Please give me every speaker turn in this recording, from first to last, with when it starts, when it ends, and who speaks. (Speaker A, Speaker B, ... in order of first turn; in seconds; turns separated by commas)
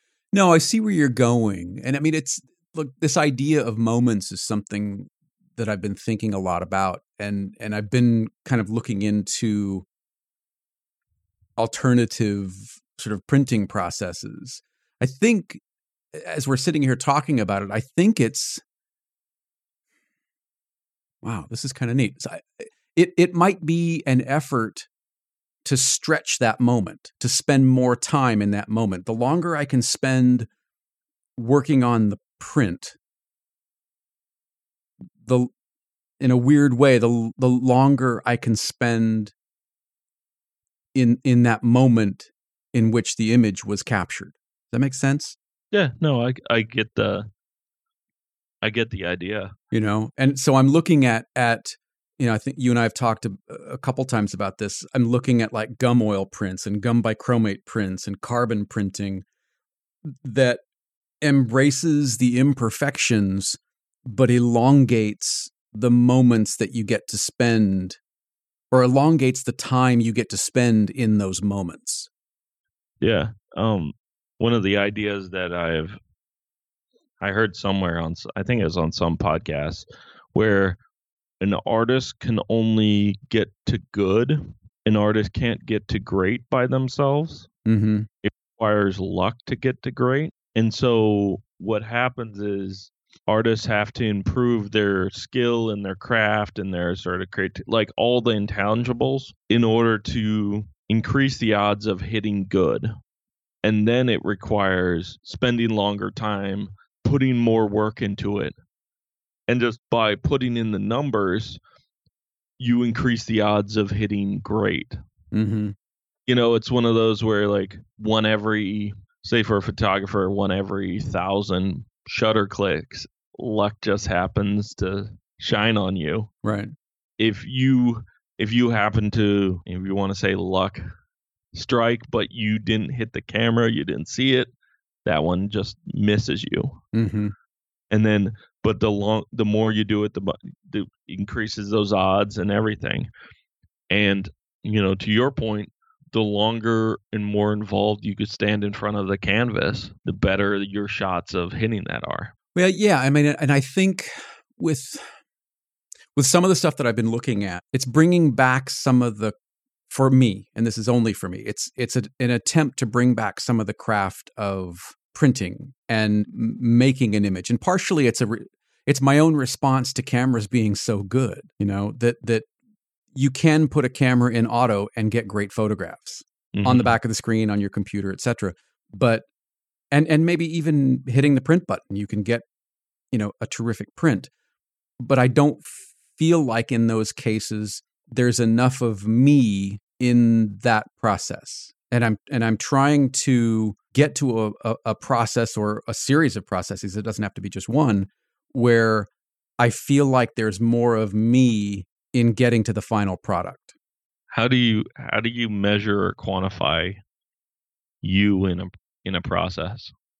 Speaker A: 0.3-9.9, Speaker A: 11.6-15.6, Speaker A: 16.1-18.6, Speaker A: 21.2-24.9, Speaker A: 25.6-30.5, Speaker A: 31.4-33.0, Speaker A: 35.2-35.5, Speaker A: 36.2-39.3, Speaker A: 41.0-45.4, Speaker B: 45.7-47.3, Speaker B: 48.6-49.5, Speaker A: 49.7-59.2, Speaker A: 60.0-60.6, Speaker A: 61.2-68.0, Speaker A: 68.7-72.1, Speaker B: 73.0-76.0, Speaker B: 77.2-80.8, Speaker B: 81.4-87.5, Speaker A: 87.7-88.1, Speaker B: 88.2-102.9, Speaker B: 103.6-108.6, Speaker B: 109.5-111.6, Speaker B: 112.6-115.0, Speaker A: 115.3-115.8, Speaker B: 116.3-126.3, Speaker A: 126.4-126.7, Speaker B: 127.2-130.8, Speaker B: 131.5-134.5, Speaker B: 135.1-136.8, Speaker A: 136.9-137.3, Speaker B: 137.9-143.1, Speaker B: 143.9-152.3, Speaker A: 152.6-155.1, Speaker A: 156.2-159.3, Speaker A: 159.9-172.5, Speaker A: 173.1-179.3, Speaker B: 176.5-176.9, Speaker A: 179.9-182.4, Speaker A: 183.1-184.3, Speaker A: 185.0-199.1, Speaker A: 199.6-203.7, Speaker B: 204.3-207.0, Speaker B: 208.0-209.9